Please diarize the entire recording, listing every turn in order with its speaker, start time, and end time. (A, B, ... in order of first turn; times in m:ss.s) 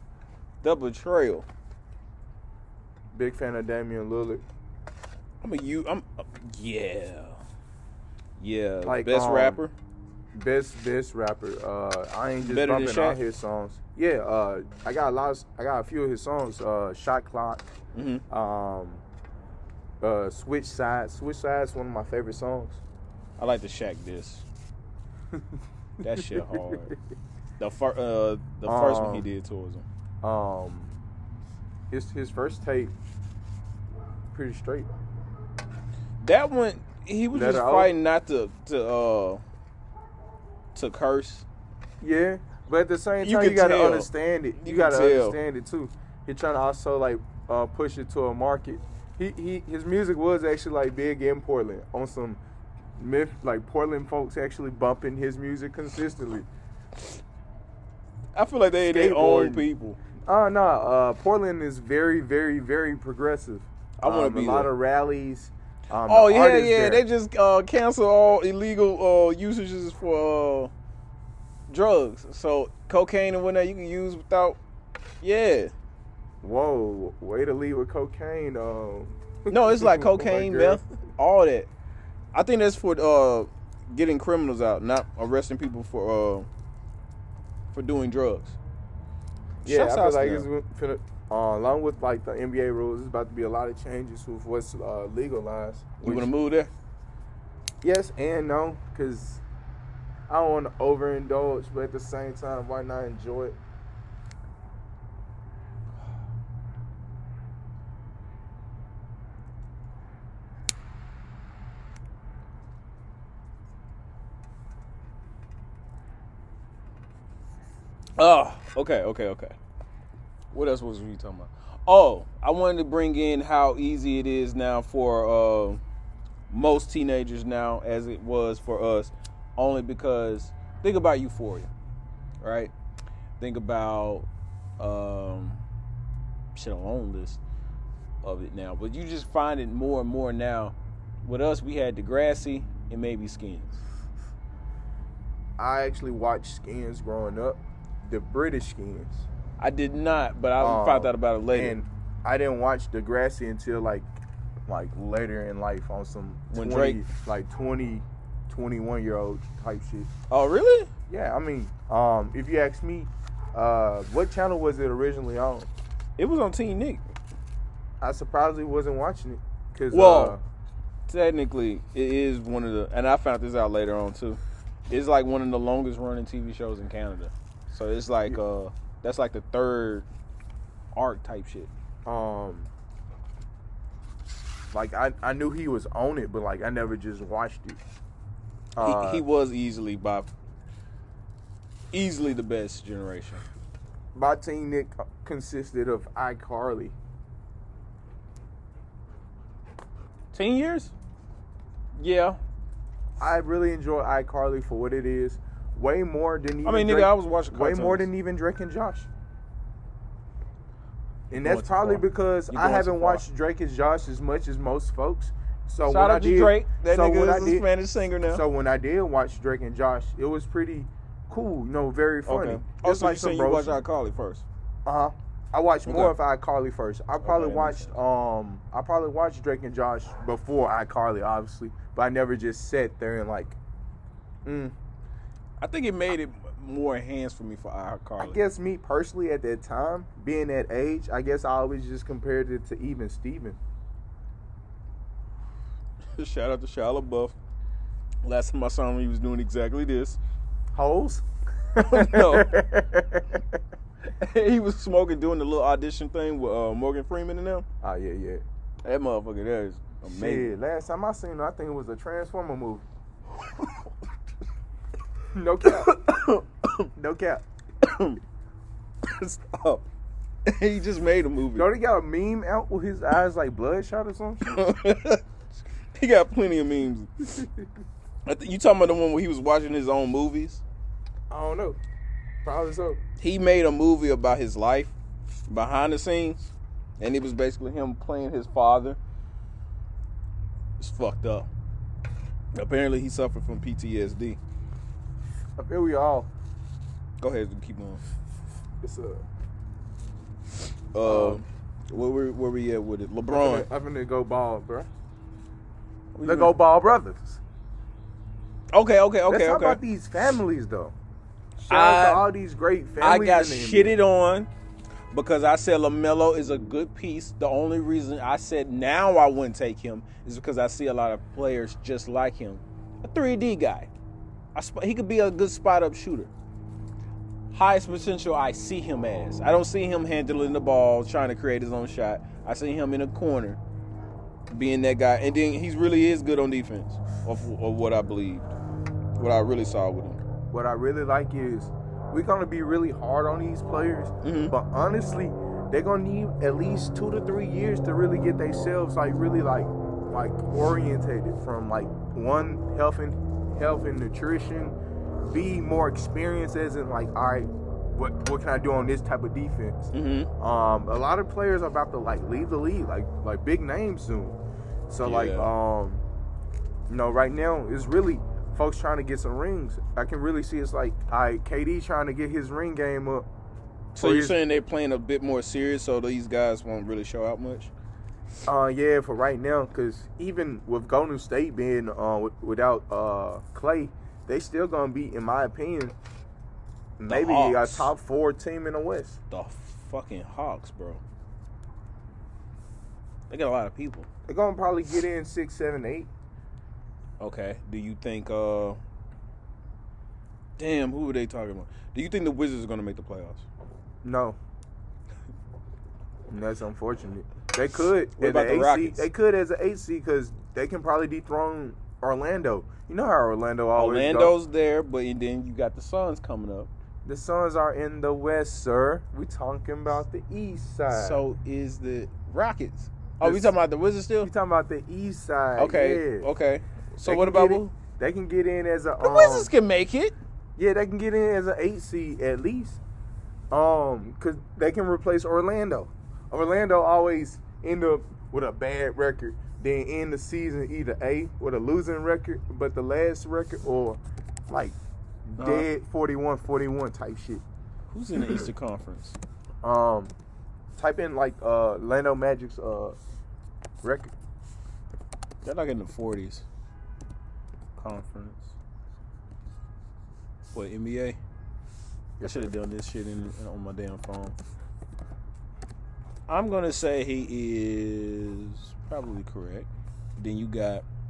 0:00.6-0:01.4 A
0:03.1-0:04.4 B
0:05.4-0:07.4 A
0:08.4-0:09.7 A
0:08.8-0:09.6 B
0:10.3-0:17.6 B
0:12.4-0:13.2 A
0:17.9-0:18.2 A
0:18.3-0:19.0 B
0:20.0-0:22.8 B
0:23.4-0:24.4 A
0:26.0-0:26.9 A
0:26.1-0:26.6 B
0:27.6-0:29.8 A
0:28.6-0:29.3 B
0:30.2-0:31.0 B
0:31.9-0:32.9 B
0:34.3-0:34.9 B
0:36.2-0:39.4 A
0:37.3-0:37.9 B
0:40.7-0:41.4 A
0:42.0-0:52.4 B
0:43.2-0:45.4 A
0:53.0-0:56.5 B
0:58.3-1:00.0 A
0:58.9-0:59.6 B
1:00.3-1:07.0 B
1:04.0-1:04.7 A
1:06.0-1:10.7 A
1:11.7-1:14.6 A
1:15.2-1:15.7 A
1:16.4-1:20.8 B
1:19.5-1:21.7 A
1:22.3-1:26.5 A
1:27.7-1:28.6 A
1:29.6-1:30.5 A
1:29.6-1:36.3 B
1:36.0-1:36.7 A
1:37.8-1:39.4 B
1:40.3-1:43.6 B
1:58.2-1:59.6 A
2:00.5-2:05.8 A
2:06.5-2:11.7 A
2:12.4-2:12.7 A
2:13.4-2:14.3 A
2:14.8-2:15.6 A
2:16.5-2:17.4 A
2:18.2-2:23.8 A
2:25.6-2:29.2 B
2:29.6-2:31.8 A
2:30.6-2:34.0 B
2:34.7-2:40.1 B
2:36.5-2:37.0 A
2:40.3-2:40.9 A
2:41.1-2:45.7 B
2:46.2-2:47.0 A
2:48.0-2:50.4 B
2:49.9-2:50.4 A
2:51.1-3:00.0 A
3:00.9-3:01.7 A
3:02.0-3:02.7 B
3:04.7-3:07.8 B
3:08.8-3:09.2 B
3:08.8-3:10.3 A
3:11.9-3:13.4 A
3:14.1-3:16.9 B
3:20.3-3:20.9 A
3:22.0-3:22.4 A
3:23.2-3:29.1 B
3:26.6-3:28.1 A
3:31.3-3:37.7 B
3:31.3-3:33.2 A
3:35.8-3:38.4 A
3:38.2-3:43.8 B
3:42.2-3:44.4 A
3:44.8-3:53.6 B
3:45.9-3:46.2 A
3:47.2-3:47.9 A
3:54.4-3:54.7 B
3:55.6-3:58.4 A
3:58.2-4:03.6 B
4:06.2-4:07.3 A
4:08.2-4:10.2 A
4:10.7-4:13.5 B
4:11.8-4:12.6 A
4:14.0-4:17.6 A
4:17.8-4:18.4 B
4:18.8-4:20.5 A
4:20.0-4:22.8 B
4:23.6-4:23.8 A
4:25.3-4:25.9 B
4:25.6-4:26.9 A
4:27.0-4:27.4 B
4:27.8-4:28.2 A
4:29.0-4:29.8 A
4:30.4-4:31.7 A
4:31.5-4:34.5 B
4:34.4-4:35.2 A
4:35.9-4:37.4 A
4:38.2-4:40.6 A
4:41.3-4:41.8 B
4:42.4-4:43.0 B
4:43.2-4:44.9 A
4:45.5-4:49.0 A
4:50.8-4:51.5 A
4:52.5-4:54.4 A
4:55.6-4:56.3 B
4:57.2-4:58.0 A
4:58.8-4:59.2 B
5:00.9-5:03.7 A
5:01.0-5:01.4 B
5:03.3-5:04.9 B
5:06.1-5:06.5 A
5:06.2-5:07.4 B
5:08.7-5:09.8 A
5:09.3-5:10.9 B
5:11.6-5:14.0 B
5:11.7-5:12.3 A
5:13.0-5:14.5 A
5:15.1-5:23.9 A
5:24.5-5:26.3 A
5:27.5-5:33.6 A
5:34.5-5:38.5 A
5:39.2-5:40.2 A
5:40.5-6:04.4 B
5:44.2-5:44.5 A
5:59.9-6:00.3 A
6:04.9-6:06.0 B
6:05.0-6:05.5 A
6:06.9-6:13.2 B
6:13.9-6:17.7 A
6:14.0-6:14.4 B
6:18.4-6:25.9 B
6:27.0-6:29.2 B
6:27.1-6:27.9 A
6:29.3-6:31.0 A
6:33.3-6:34.1 A
6:34.3-6:36.1 B
6:37.2-6:38.8 A
6:40.6-6:43.4 A
6:44.0-6:44.4 B
6:46.3-6:54.3 B
6:48.2-6:49.1 A
6:53.7-6:56.7 A
6:57.0-7:01.2 B
7:00.9-7:04.3 A
7:03.2-7:03.5 B
7:04.2-7:06.3 B
7:05.6-7:07.7 A
7:07.0-7:09.5 B
7:09.0-7:10.1 A
7:10.6-7:12.8 B
7:13.5-7:24.8 B
7:25.3-7:27.4 B
7:25.4-7:25.7 A
7:27.9-7:29.2 A
7:29.6-7:30.1 B
7:30.8-7:33.0 B
7:33.8-7:34.1 B
7:35.4-7:36.4 A
7:37.8-7:38.5 A
7:40.5-7:41.2 A
7:42.2-7:42.5 B
7:42.2-7:44.4 A
7:46.3-7:50.8 A